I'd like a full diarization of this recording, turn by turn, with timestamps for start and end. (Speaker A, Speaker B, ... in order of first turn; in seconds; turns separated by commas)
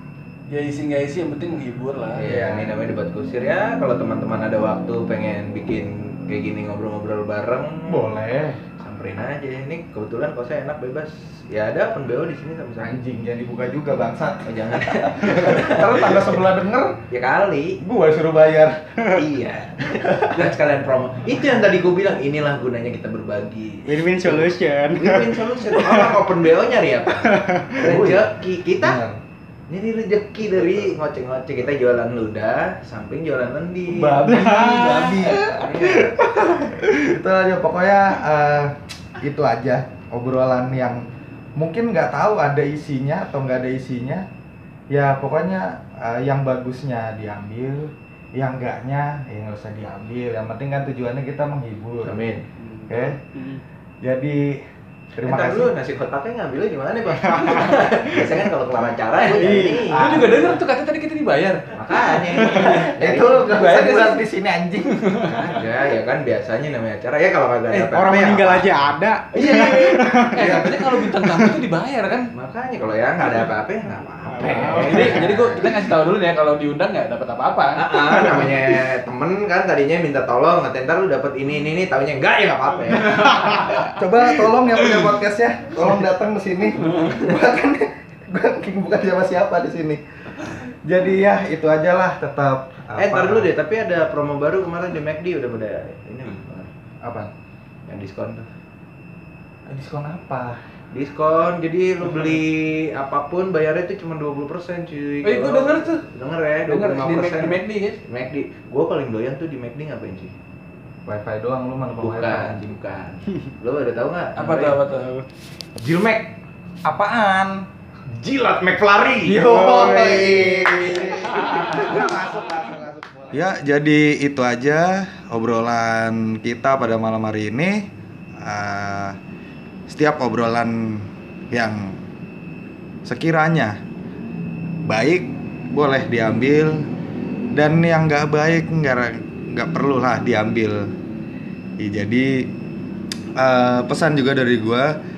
Speaker A: 0.5-2.2, Speaker B: 2.2-8.1, Speaker C: 2.2-2.7, Speaker C: 7.9-8.6, Speaker B: 8.8-12.9, Speaker C: 12.8-17.0, Speaker B: 14.5-16.4, Speaker B: 17.1-17.8, Speaker C: 17.8-18.9, Speaker B: 19.1-29.0, Speaker C: 19.9-20.5, Speaker D: 23.9-26.2, Speaker D: 27.3-27.8, Speaker C: 27.8-28.3, Speaker C: 28.8-29.2, Speaker B: 29.7-34.2, Speaker C: 33.9-35.9, Speaker D: 34.3-37.0, Speaker B: 35.6-36.2, Speaker C: 37.0-41.0, Speaker C: 41.6-44.2, Speaker C: 44.9-52.2, Speaker B: 52.0-52.4, Speaker D: 52.6-53.6, Speaker C: 52.9-53.2, Speaker C: 54.0-54.6, Speaker C: 55.2-55.7, Speaker B: 55.2-60.3, Speaker D: 57.2-58.3, Speaker D: 59.2-60.4, Speaker A: 59.9-62.3, Speaker B: 61.8-64.2, Speaker C: 62.5-65.2, Speaker B: 65.3-68.9, Speaker D: 67.8-71.6, Speaker A: 69.3-72.3, Speaker B: 69.5-70.0, Speaker B: 72.3-75.7, Speaker D: 74.3-75.2, Speaker A: 74.4-78.5, Speaker B: 77.8-83.9, Speaker C: 83.9-93.5, Speaker B: 93.0-96.7, Speaker C: 97.0-97.3, Speaker B: 97.9-98.5, Speaker C: 99.7-100.6, Speaker B: 100.9-110.3, Speaker A: 105.2-106.1, Speaker A: 106.7-108.0, Speaker C: 111.1-112.7, Speaker B: 112.0-114.8, Speaker A: 114.4-115.2, Speaker B: 115.8-116.3, Speaker C: 116.8-117.6, Speaker B: 118.1-119.3, Speaker C: 119.2-127.9, Speaker D: 119.3-121.0, Speaker A: 121.4-121.7, Speaker C: 128.4-129.2, Speaker C: 129.9-132.0, Speaker C: 133.1-133.8, Speaker C: 134.8-136.8, Speaker C: 137.5-140.8, Speaker C: 141.8-142.5, Speaker C: 143.4-144.9